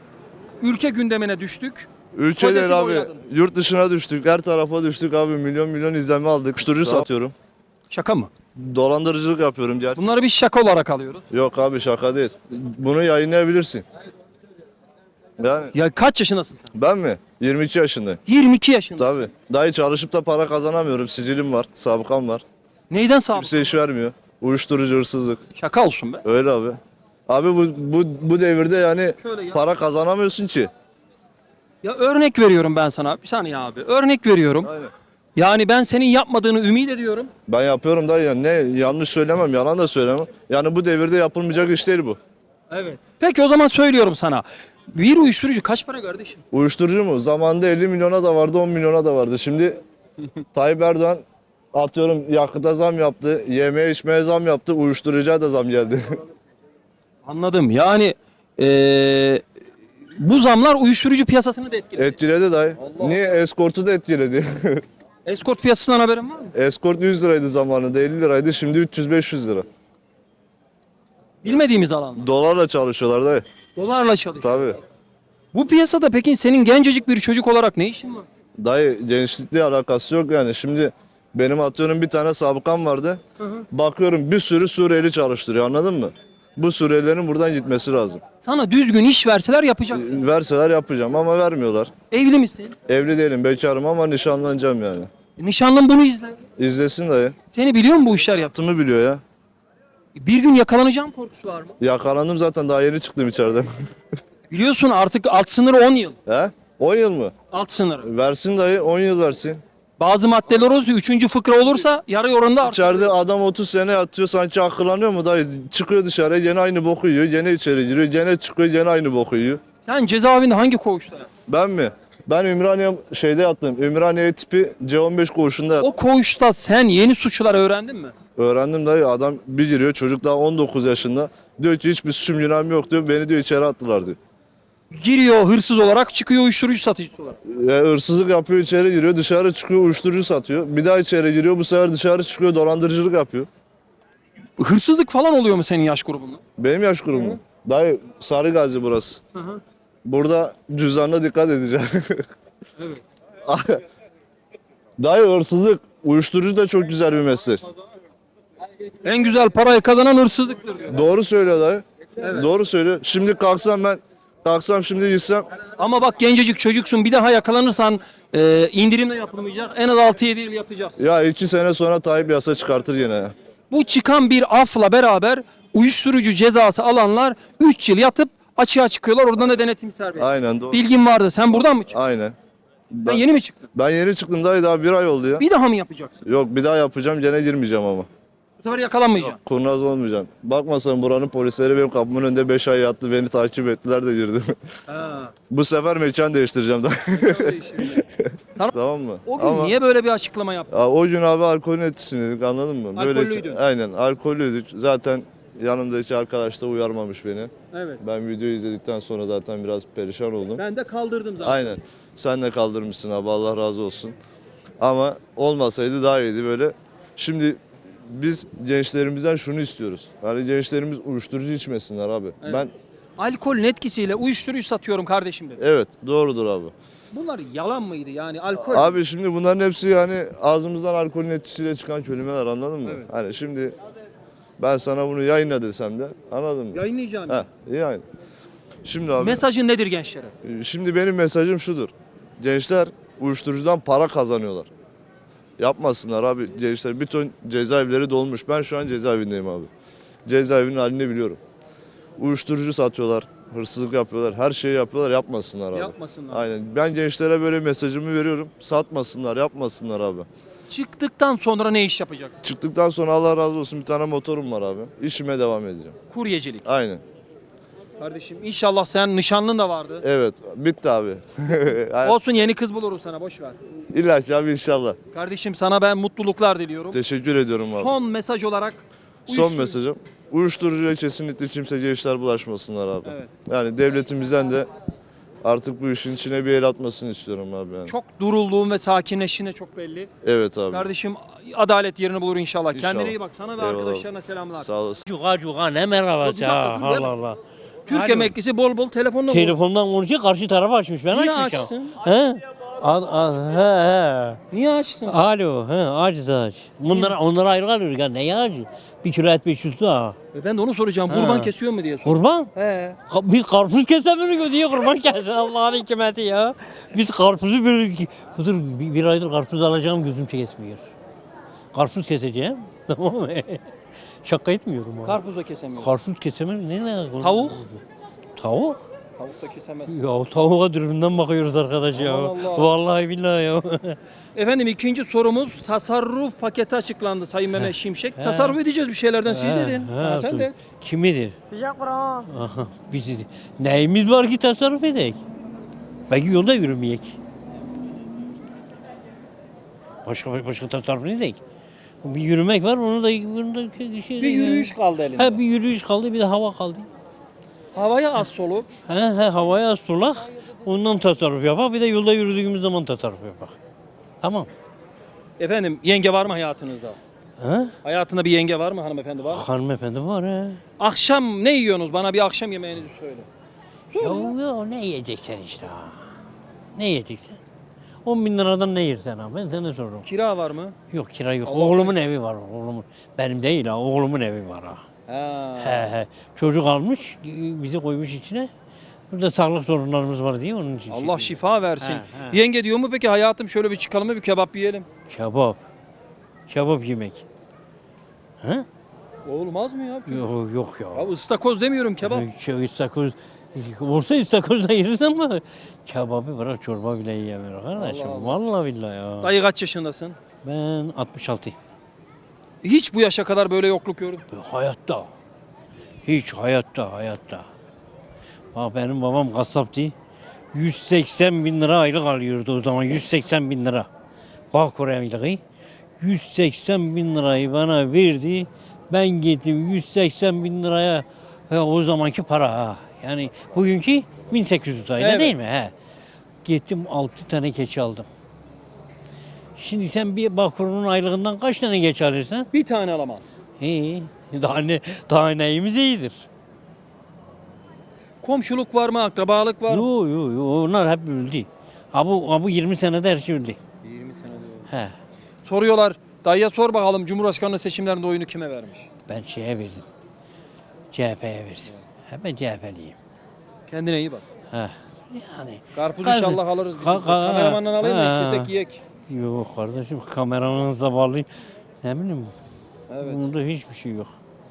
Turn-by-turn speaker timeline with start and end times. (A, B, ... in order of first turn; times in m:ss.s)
0:00.6-0:03.2 A
0:02.1-0:07.3 B
0:07.9-0:08.3 A
0:08.5-0:10.1 B
0:10.0-0:11.2 A
0:11.3-0:13.8 B
0:15.4-0:15.7 B
0:15.7-0:16.7 A
0:16.7-0:18.2 B
0:18.3-0:19.3 A
0:19.0-0:22.4 B
0:22.9-0:23.6 A
0:23.3-0:25.4 B
0:25.5-0:26.2 A
0:26.2-0:30.7 B
0:29.2-0:29.6 A
0:31.8-0:34.7 A
0:34.6-0:34.9 B
0:35.4-0:37.3 A
0:37.5-0:42.2 B
0:42.7-0:46.4 A
0:46.5-0:49.8 B
0:50.5-0:56.1 B
0:57.2-0:59.4 A
1:00.2-1:02.2 A
1:02.0-1:04.8 B
1:02.8-1:03.3 A
1:05.2-1:06.5 A
1:06.5-1:09.6 B
1:11.4-1:12.3 A
1:12.2-1:13.4 B
1:13.7-1:14.8 A
1:14.4-1:14.8 B
1:15.5-1:18.3 A
1:18.6-1:23.2 B
1:23.7-1:28.2 B
1:28.4-1:30.2 A
1:29.9-1:31.9 B
1:32.1-1:32.8 A
1:32.9-1:35.1 B
1:35.4-1:36.4 A
1:36.6-1:37.4 B
1:37.5-1:38.5 A
1:38.5-1:39.2 B
1:40.1-1:41.8 A
1:41.8-1:43.7 B
1:44.5-1:46.2 A
1:46.3-1:47.3 B
1:47.5-1:48.1 A
1:48.0-1:49.6 B
1:50.0-1:53.1 A
1:52.6-1:59.6 B
1:59.8-2:01.3 A
2:01.5-2:05.9 B
2:05.8-2:08.1 A
2:08.4-2:14.2 B
2:14.9-2:17.4 A
2:17.4-2:23.5 B
2:24.6-2:26.4 A
2:26.6-2:29.2 B
2:27.1-2:27.4 A
2:29.4-2:29.6 A
2:30.0-2:32.2 B
2:33.4-2:33.8 B
2:35.0-2:37.6 B
2:39.0-2:41.0 A
2:40.9-2:45.4 B
2:42.2-2:42.5 A
2:45.8-2:51.0 A
2:51.0-2:53.3 B
2:53.7-3:02.0 A
3:00.2-3:00.8 B
3:01.9-3:02.3 B
3:02.9-3:03.2 B
3:03.0-3:03.7 A
3:03.7-3:05.4 B
3:05.4-3:06.2 A
3:06.2-3:08.1 B
3:08.6-3:09.4 A
3:09.2-3:14.6 B
3:14.9-3:15.3 A
3:15.5-3:19.7 B
3:17.1-3:18.0 A
3:18.6-3:20.8 A
3:20.7-3:30.6 B
3:22.9-3:23.6 A
3:27.7-3:28.0 A
3:30.6-3:31.7 A
3:31.4-3:34.2 B
3:34.8-3:42.7 B
3:43.2-3:45.6 A
3:45.6-3:46.7 B
3:47.1-3:49.0 A
3:48.6-3:53.7 B
3:54.6-3:58.0 B
3:56.7-3:57.5 A
3:58.8-3:59.4 B
3:59.2-4:00.3 A
4:00.4-4:04.7 B
4:05.6-4:09.7 B
4:10.2-4:11.4 B
4:12.2-4:20.3 B
4:15.7-4:16.4 A
4:20.7-4:22.4 A
4:22.4-4:26.0 B
4:26.1-4:26.6 A
4:26.6-4:27.0 B
4:28.0-4:30.0 A
4:30.0-4:32.2 B
4:32.0-4:33.6 A
4:33.9-4:35.0 B
4:35.1-4:37.0 A
4:36.9-4:38.0 B
4:37.6-4:39.8 A
4:39.3-4:44.7 B
4:45.4-4:47.9 B
4:47.9-4:50.1 A
4:50.2-4:50.9 B
4:50.7-4:54.7 A
4:52.7-4:54.1 B
4:54.6-4:55.0 B
4:55.0-4:58.3 C
4:56.2-4:57.1 A
4:57.9-4:59.6 A
4:59.3-5:04.4 C
5:01.1-5:02.1 A
5:04.5-5:05.2 A
5:05.1-5:10.2 C
5:06.9-5:07.2 A
5:10.3-5:13.0 A
5:11.1-5:11.5 C
5:12.0-5:12.5 C
5:13.1-5:20.8 C
5:21.7-5:23.6 C
5:24.2-5:25.2 C
5:25.0-5:25.9 A
5:25.8-5:27.8 C
5:27.2-5:27.6 A
5:28.4-5:28.8 C
5:29.2-5:29.9 A
5:29.9-5:34.0 C
5:31.9-5:32.7 A
5:34.3-5:40.5 A
5:37.6-5:38.6 C
5:39.2-5:45.2 C
5:46.1-5:47.2 C
5:50.0-5:51.4 C
5:52.0-5:56.9 C
5:54.2-5:55.4 A
5:57.7-5:58.7 A
5:58.9-6:03.5 C
6:04.2-6:04.5 C
6:05.4-6:07.0 A
6:07.4-6:07.7 C
6:07.8-6:09.4 A
6:09.3-6:10.6 C
6:10.8-6:13.3 A
6:13.9-6:14.3 A
6:14.0-6:16.0 C
6:16.7-6:17.4 C
6:18.0-6:20.0 C
6:20.0-6:20.7 A
6:20.9-6:24.8 C
6:21.4-6:22.0 A
6:25.1-6:25.9 A
6:25.6-6:28.5 C
6:29.1-6:32.4 C
6:30.9-6:34.9 A
6:35.1-6:35.6 C
6:36.5-6:37.2 C
6:38.4-6:38.7 C
6:39.2-6:40.2 A
6:40.1-6:41.1 C
6:40.9-6:42.3 A
6:42.0-6:49.3 C
6:47.7-6:48.4 A
6:49.2-6:50.2 A
6:50.4-6:51.5 C
6:52.6-6:54.2 A
6:54.3-6:55.1 C
6:56.0-6:57.4 C
6:58.5-6:59.9 C
7:00.5-7:03.9 C
7:04.5-7:05.4 C
7:06.0-7:15.7 C
7:15.0-7:15.3 A
7:16.4-7:18.1 C
7:19.6-7:22.5 C
7:22.5-7:23.2 A
7:23.6-7:26.2 C
7:28.2-7:29.9 A
7:29.7-7:33.6 C
7:33.8-7:34.7 A
7:35.4-7:38.9 A
7:39.1-7:39.8 C
7:40.9-7:42.9 C
7:43.7-7:44.2 A
7:44.5-7:48.5 C
7:45.7-7:48.8 A
7:49.1-7:51.3 C
7:51.8-7:52.3 C
7:52.9-7:53.2 A
7:53.0-7:54.1 C